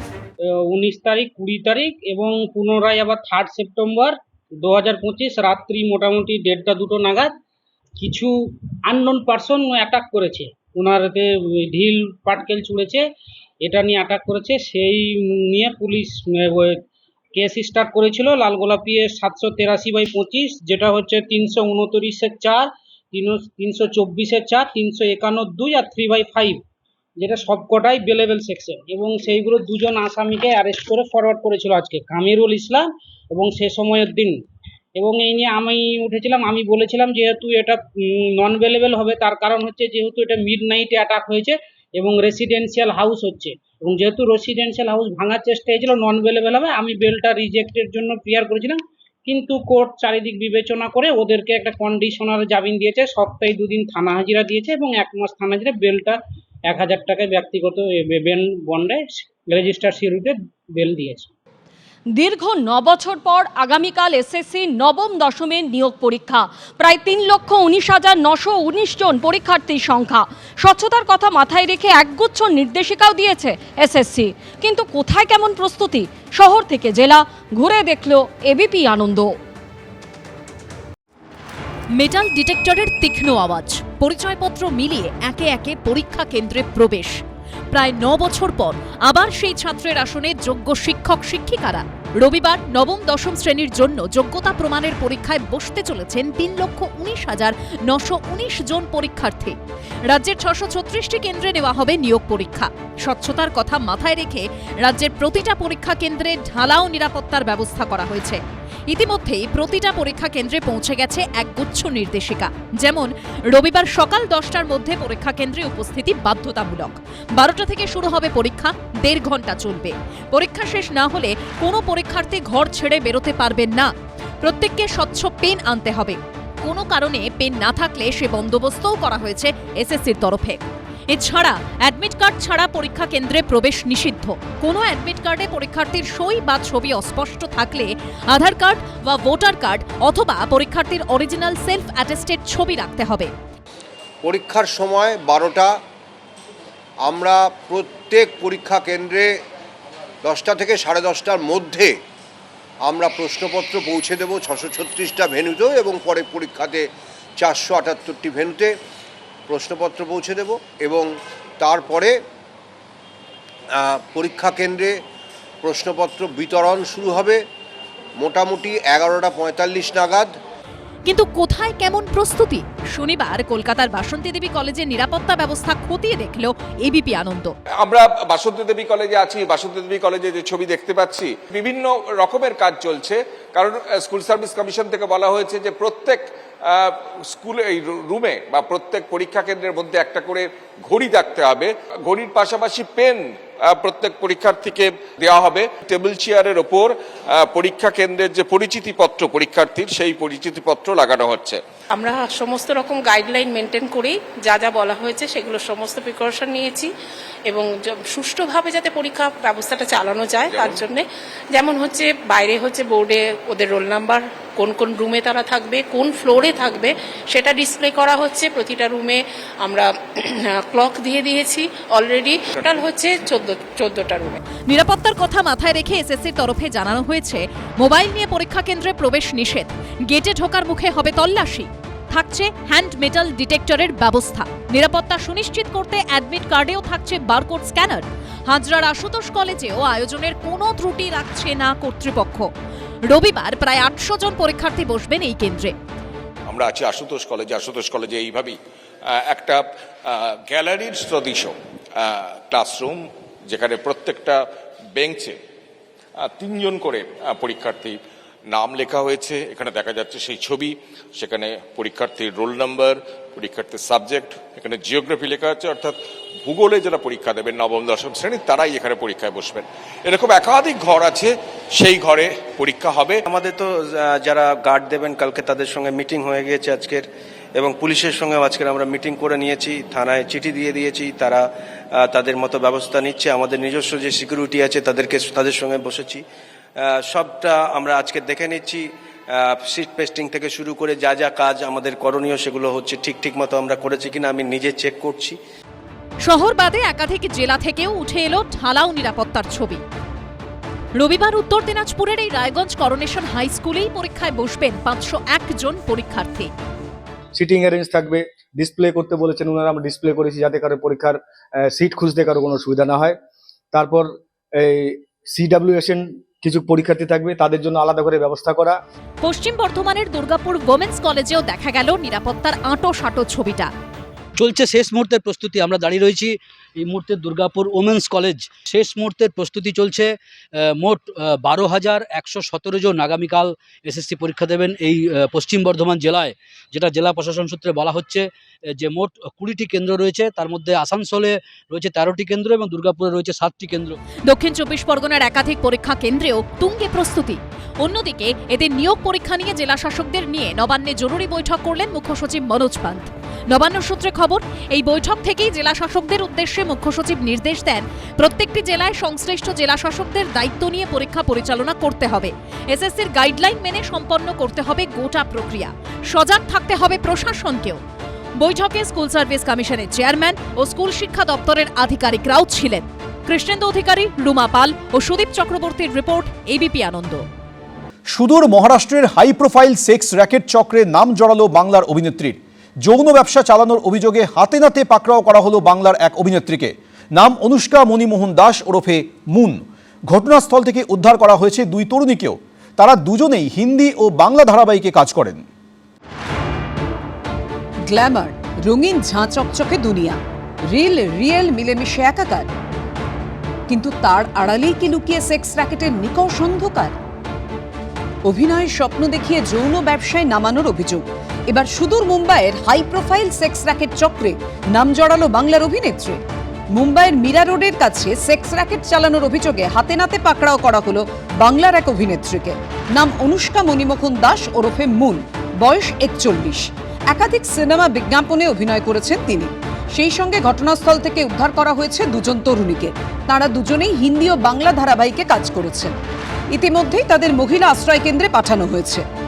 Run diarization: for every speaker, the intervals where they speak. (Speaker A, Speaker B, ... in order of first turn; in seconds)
Speaker A: 0.5-7.3, 8.0-8.3, 8.9-13.0, 13.6-16.8, 17.4-26.6, 27.2-34.4, 35.0-61.3
Speaker B: 62.1-79.3
Speaker C: 81.9-87.2, 87.7-99.6, 100.1-123.9, 124.4-143.3, 171.1-177.5, 224.7-242.5, 243.1-245.8, 296.2-299.8, 301.0-306.5, 319.2-323.7, 344.3-367.8, 368.4-377.2
Speaker D: 144.2-145.8, 147.0-149.3, 150.2-152.0, 152.8-158.8, 159.5-162.2, 163.8-165.0, 165.6-167.5, 168.2-170.3
Speaker E: 177.8-201.6, 210.4-210.8, 246.5-248.6, 249.1-255.4, 256.2-273.2
Speaker F: 201.9-206.9, 207.5-224.4
Speaker G: 273.2-286.2, 286.8-295.4
Speaker H: 307.4-311.2, 311.8-313.1, 313.7-314.1, 314.6-318.8
Speaker I: 324.4-344.0
Speaker J: 378.1-395.4
Speaker K: 397.9-400.2, 400.7-402.5, 403.7-406.9, 408.3-416.2, 416.7-435.9, 436.5-439.1